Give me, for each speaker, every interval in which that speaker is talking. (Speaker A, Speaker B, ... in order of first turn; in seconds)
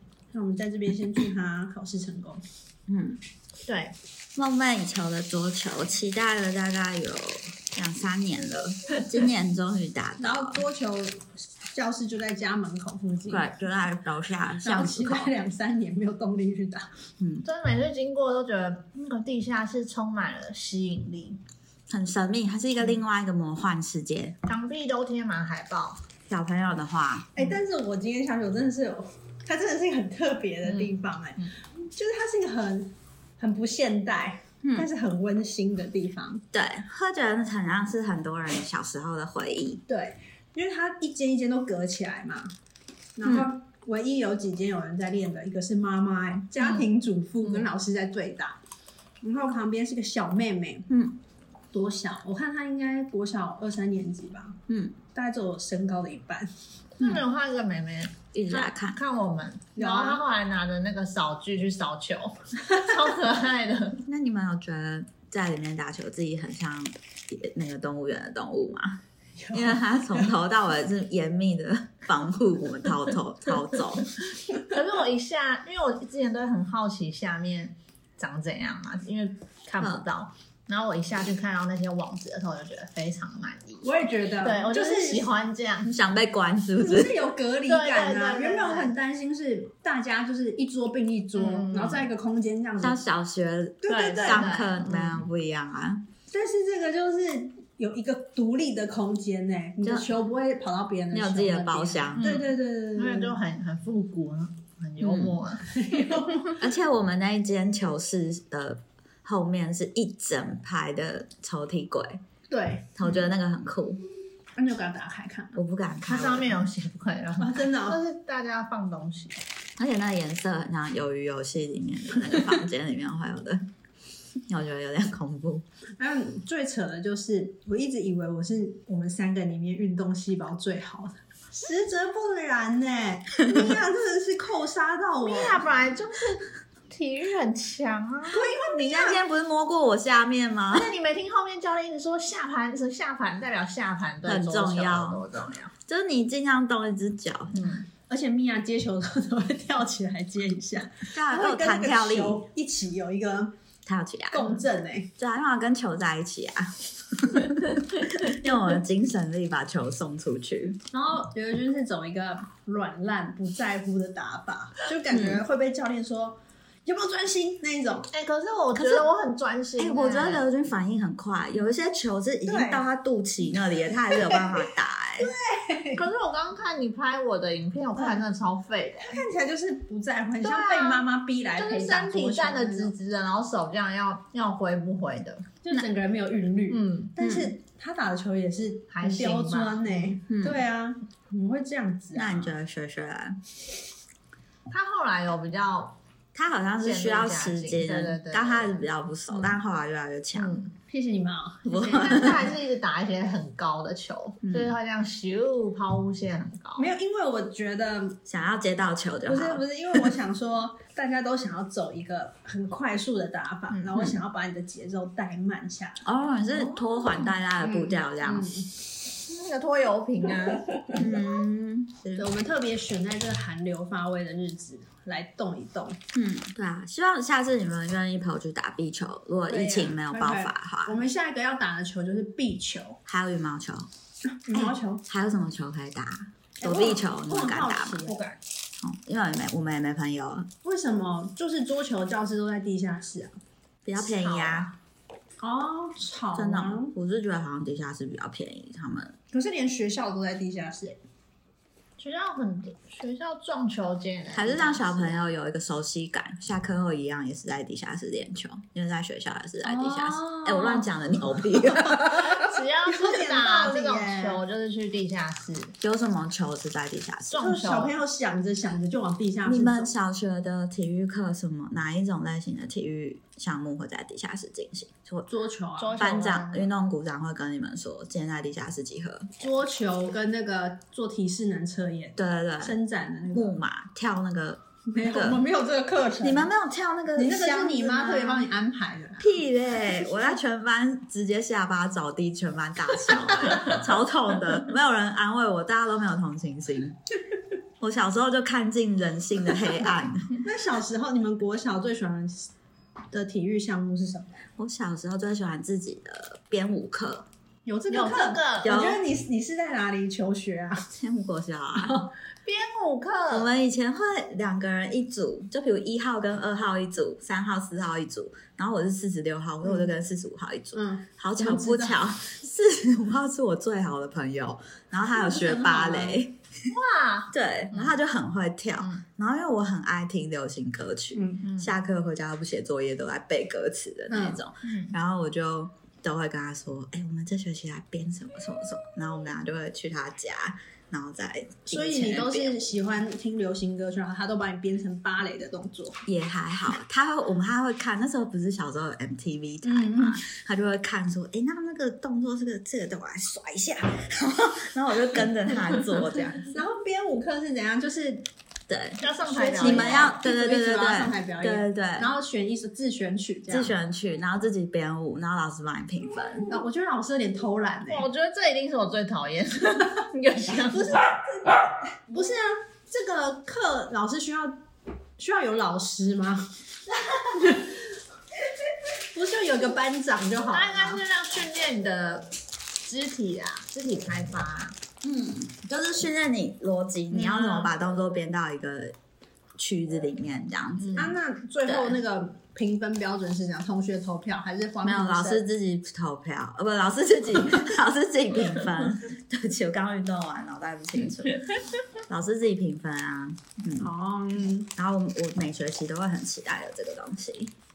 Speaker A: 0.3-2.4, 10.2-13.5, 14.6-16.9, 27.3-36.4, 39.9-42.5, 43.2-48.6, 49.2-50.9, 51.7-54.6, 55.1-56.5, 59.8-60.2, 69.4-70.3, 83.8-85.3, 86.8-93.0, 93.8-94.6, 96.3-103.4, 105.7-106.6, 112.5-113.2, 114.6-115.6, 117.4-118.0, 126.0-135.7, 138.3-139.2, 148.1-153.5, 154.3-155.1, 160.9-168.1, 172.5-172.8, 174.0-174.5, 175.2-176.0, 177.9-178.2, 179.0-182.9, 185.6-192.6, 200.9-202.5, 206.8-208.2, 209.3-216.0, 217.6-218.7, 222.2-226.0, 230.1-233.0, 234.4-235.0, 236.6-238.3, 240.6-243.4, 245.4-246.9, 249.3-251.0, 259.6-260.9, 262.8-264.4, 267.4-269.9, 275.3-276.0, 279.4-283.5, 284.9-286.5, 287.1-289.4, 300.4-302.5, 303.1-304.3, 307.6-310.9, 311.8-312.1, 319.6-319.9, 320.7-322.0, 325.1-326.2, 331.1-331.4, 334.1-334.4, 341.7-346.0, 349.6-350.2, 356.5-358.2, 359.2-363.8, 366.5-368.1, 370.5-374.6, 375.2-376.5, 377.2-377.9, 379.1-381.0, 390.9-395.4, 403.8-404.7
Speaker B: 2.9-3.2, 4.3-10.6, 13.3-15.3, 17.2-17.5, 21.9-24.4, 26.3-27.3, 36.5-39.8, 43.2-43.5, 50.9-51.2, 54.7-54.9, 58.3-59.0, 64.0-69.0, 69.5-74.1, 79.8-80.0, 85.8-87.1, 92.8-96.0, 99.8-100.1, 101.1-102.3, 105.0-105.4, 106.6-112.2, 113.0-114.0, 115.5-116.6, 119.8-123.6, 124.5-125.6, 138.5-140.9, 144.2-145.2, 145.9-147.8, 151.1-152.4, 153.8-154.6, 155.2-160.8, 165.1-165.4, 169.8-175.3, 187.2-187.5, 190.3-190.6, 192.1-193.4, 196.3-200.6, 201.6-202.4, 204.4-204.7, 208.2-210.1, 216.0-218.6, 220.9-222.3, 226.1-231.0, 233.1-233.9, 234.5-238.0, 238.8-240.5, 243.8-244.7, 246.3-249.1, 254.3-262.4, 265.8-267.4, 269.4-275.3, 276.0-279.3, 282.1-282.7, 283.3-285.4, 286.2-288.5, 289.2-297.0, 297.8-300.4, 304.6-307.3, 308.6-309.0, 310.9-311.9, 313.3-326.4, 327.3-342.7, 346.1-356.5, 358.7-359.0, 359.6-362.1, 363.5-366.5, 385.0-388.9, 389.6-392.0, 394.8-401.5, 402.1-403.9, 404.8-407.5
Speaker C: 3.6-4.0, 17.4-21.4, 24.4-26.0, 57.0-64.0, 74.7-85.9, 87.7-88.9, 91.3-92.0, 93.9-95.2, 102.2-105.7, 116.0-119.4, 135.2-138.4, 140.7-145.7, 147.5-147.8, 168.1-170.5, 175.9-179.2, 180.4-185.4, 186.7-187.1, 188.9-190.1, 194.7-196.0, 196.8-199.6, 200.3-200.7, 201.9-206.9, 213.7-214.0, 219.2-220.7, 229.5-230.0, 243.9-244.7, 252.0-255.2, 262.3-265.7, 267.3-267.9, 275.8-276.7, 307.9-308.7, 312.4-313.5, 326.7-327.9, 331.4-331.7, 334.6-334.9, 359.0-360.1, 367.9-371.0, 380.5-382.3, 382.8-384.8, 387.1-387.6, 390.8-391.1